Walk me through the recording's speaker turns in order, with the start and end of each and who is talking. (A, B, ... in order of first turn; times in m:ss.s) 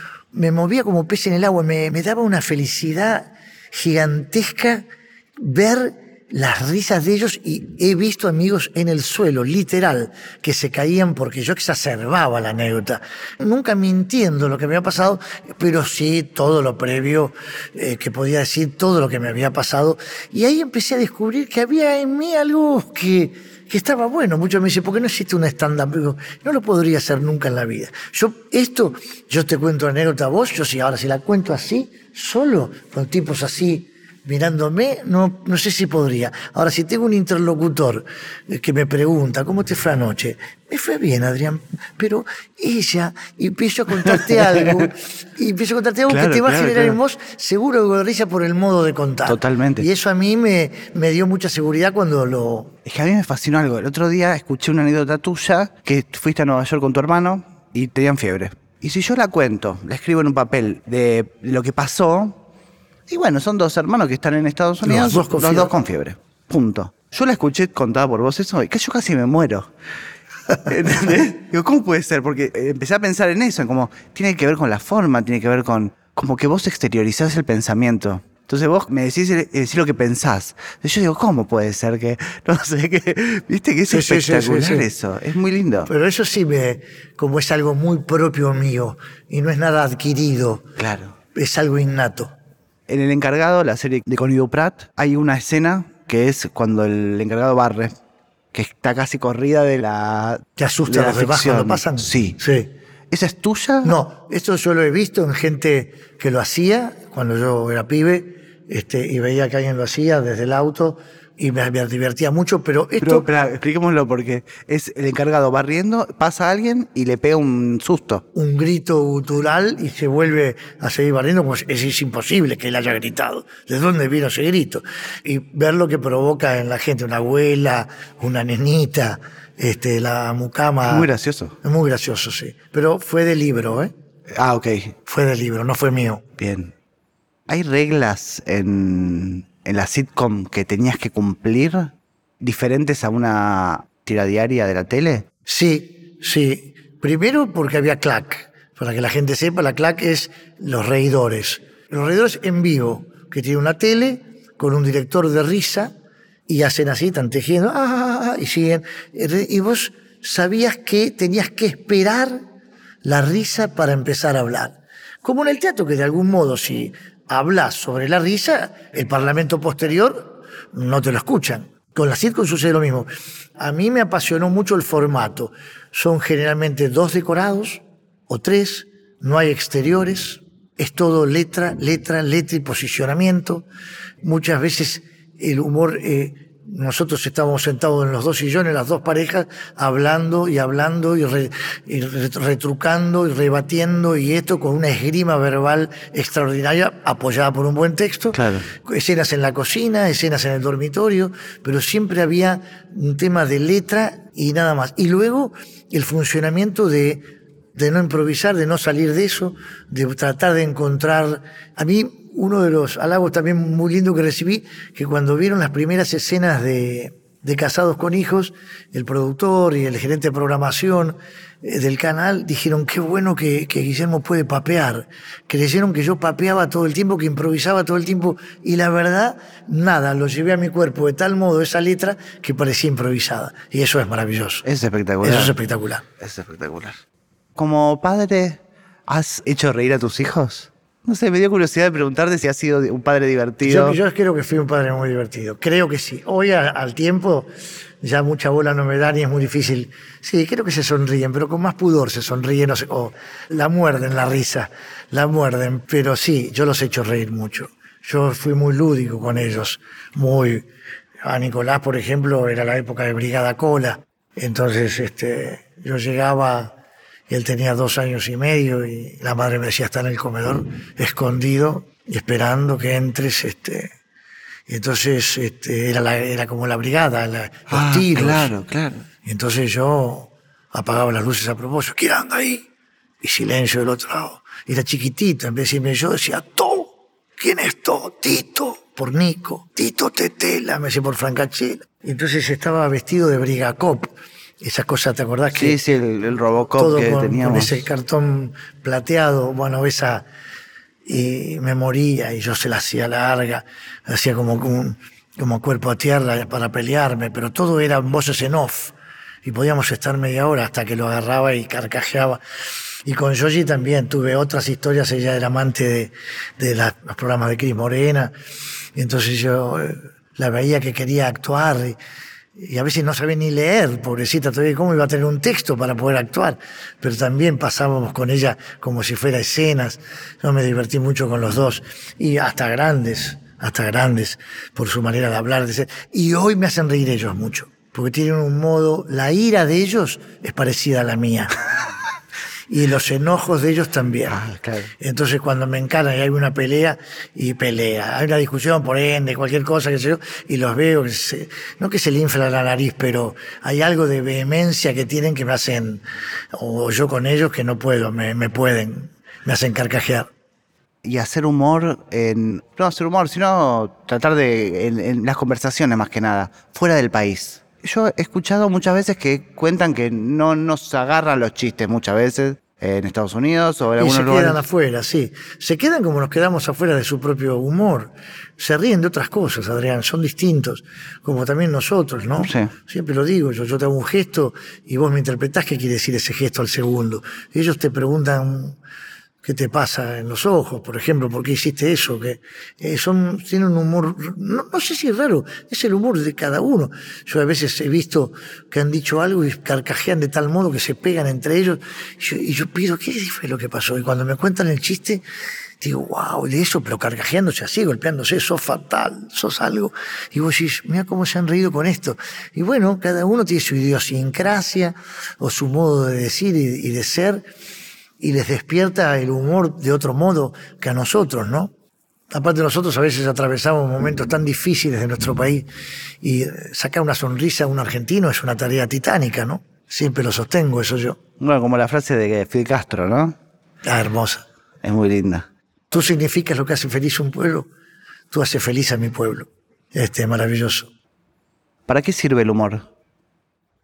0:00.3-0:04.9 A
0:05.4-0:52.7 A
0:44.0-0:44.9 B
0:46.1-0:47.0 B
0:49.3-0:49.9 B
0:52.8-1:02.4 B
1:03.1-1:09.7 B
1:04.8-1:05.7 A
1:10.6-1:25.9 B
1:23.9-1:24.9 A
1:25.8-1:30.7 A
1:30.8-1:31.2 B
1:31.3-1:32.3 A
1:32.9-1:37.9 B
1:38.5-1:42.4 B
1:40.6-1:42.7 A
1:43.1-1:44.0 B
1:43.8-1:53.3 A
1:53.0-1:58.2 B
1:58.3-2:11.1 A
2:10.9-2:11.6 B
2:11.6-2:13.9 A
2:14.3-2:15.0 B
2:15.1-2:16.2 A
2:16.4-2:16.7 B
2:17.5-2:25.3 B
2:25.5-2:35.9 A
2:36.5-2:42.4 A
2:43.0-3:03.7 A
3:04.2-3:27.2 A
3:18.3-3:18.7 B
3:27.8-3:54.6 A
3:54.6-3:55.6 B
3:55.2-3:56.0 A
3:56.2-3:57.0 B
3:57.6-4:04.0 B
4:03.6-4:07.5 A
4:08.0-4:20.7 A
4:21.2-4:26.8 A
4:27.3-4:33.9 A
4:34.7-4:38.5 A
4:37.7-4:39.0 B
4:39.2-4:42.7 A
4:43.2-4:55.8 A
4:55.6-4:57.8 B
4:56.8-5:00.3 A
5:01.1-5:12.4 A
5:13.0-5:18.3 A
5:19.0-5:22.0 A
5:22.6-5:41.6 A
5:42.7-5:44.4 A
5:44.3-5:44.9 B
5:45.0-5:56.0 A
5:56.5-6:00.3 A
6:01.0-6:14.6 B
6:14.0-6:28.8 A
6:22.4-6:22.7 B
6:29.4-6:45.2 A
6:45.8-6:57.5 A
6:58.2-7:01.7 A
7:02.3-7:05.7 A
7:06.2-7:11.2 A
7:11.4-7:13.4 B
7:13.8-7:14.4 A
7:14.8-7:15.5 B
7:15.9-7:17.7 A
7:18.3-7:20.9 A
7:21.9-7:22.9 B